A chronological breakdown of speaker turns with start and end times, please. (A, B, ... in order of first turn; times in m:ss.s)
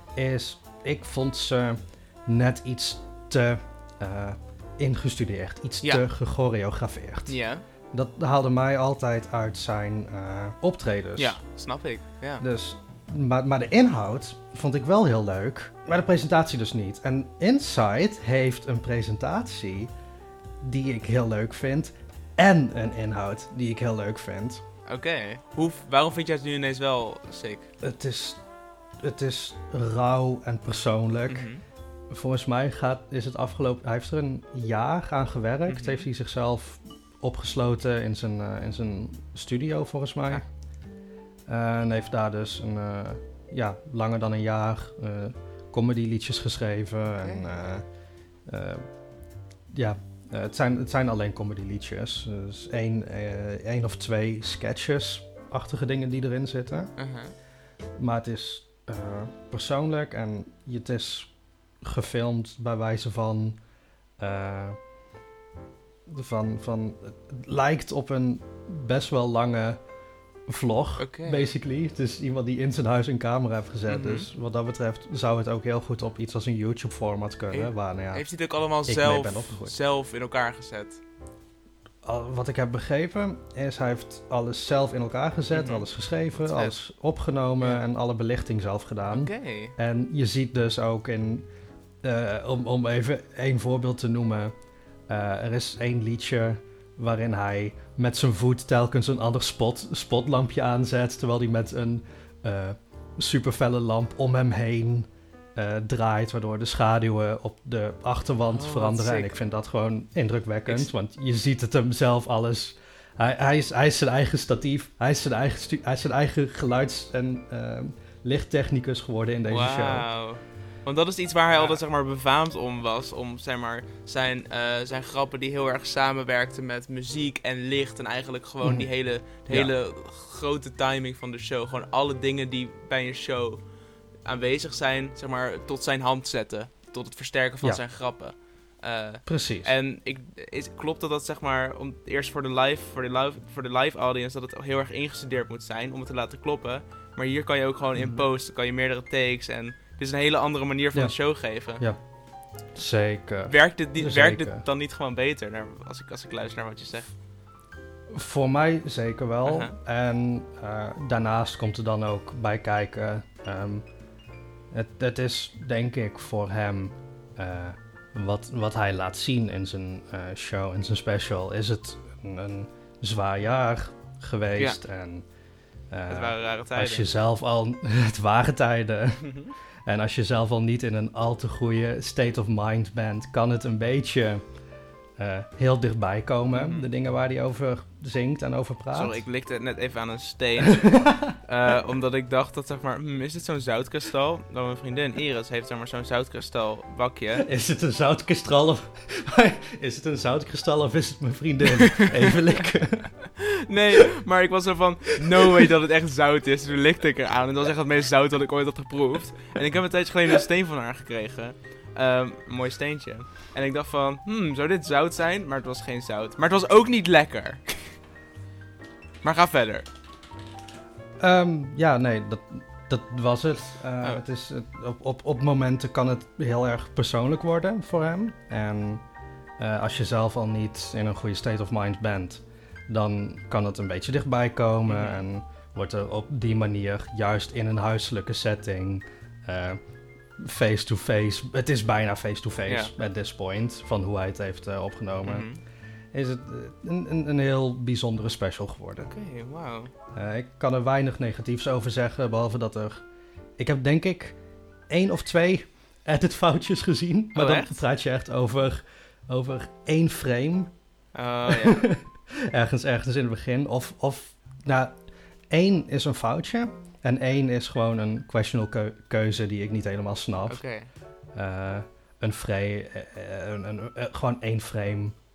0:00.2-0:07.4 A
0:07.3-0:07.6 B
0:07.9-0:11.4 A
0:11.2-0:12.4 B
0:12.4-0:19.9 A
0:20.6-0:24.6 A
0:24.8-0:27.7 B
0:27.8-0:28.4 A
0:29.0-0:31.5 A
0:31.3-0:31.6 B
0:32.1-0:40.4 A
0:35.7-0:36.1 B
0:41.5-0:47.8 A
0:47.2-0:47.5 B
0:48.5-0:48.8 A
0:49.7-0:56.9 A
0:57.0-0:57.3 B
0:58.0-1:03.6 A
1:04.2-1:04.8 A
1:06.1-1:09.8 A
1:10.5-1:18.3 A
1:11.0-1:11.5 B
1:13.9-1:14.3 B
1:17.5-1:21.0 B
1:18.8-1:19.7 A
1:22.0-1:31.5 A
1:25.5-1:26.8 B
1:29.0-1:29.8 B
1:32.0-1:34.5 A
1:35.1-2:00.1 A
1:48.5-1:49.4 B
1:59.5-2:13.6 B
2:01.5-2:01.8 A
2:08.6-2:09.7 A
2:14.2-2:31.8 B
2:19.2-2:19.7 A
2:27.9-2:28.2 A
2:30.9-2:32.0 A
2:32.7-2:34.6 A
2:33.4-2:37.2 B
2:38.1-2:43.8 A
2:39.4-2:39.7 B
2:44.7-2:55.2 A
2:55.9-3:04.4 A
2:56.1-2:57.1 B
2:59.2-2:59.5 B
3:05.2-3:09.2 A
3:06.5-3:06.9 B
3:08.9-3:17.5 B
3:10.6-3:11.3 A
3:17.4-3:23.3 A
3:23.6-3:38.0 B
3:39.2-3:39.9 B
3:41.2-3:49.0 A
3:49.6-3:59.8 A
3:54.9-3:55.2 B
4:00.4-4:05.5 A
4:02.6-4:02.9 B
4:05.2-4:05.6 B
4:06.1-4:09.1 A
4:09.0-4:09.9 B
4:10.1-4:13.0 A
4:13.6-4:14.4 A
4:14.9-4:20.7 A
4:17.3-4:17.8 B
4:21.1-4:21.9 B
4:21.5-4:25.0 A
4:25.5-4:30.6 A
4:30.5-4:30.9 B
4:31.3-4:35.2 A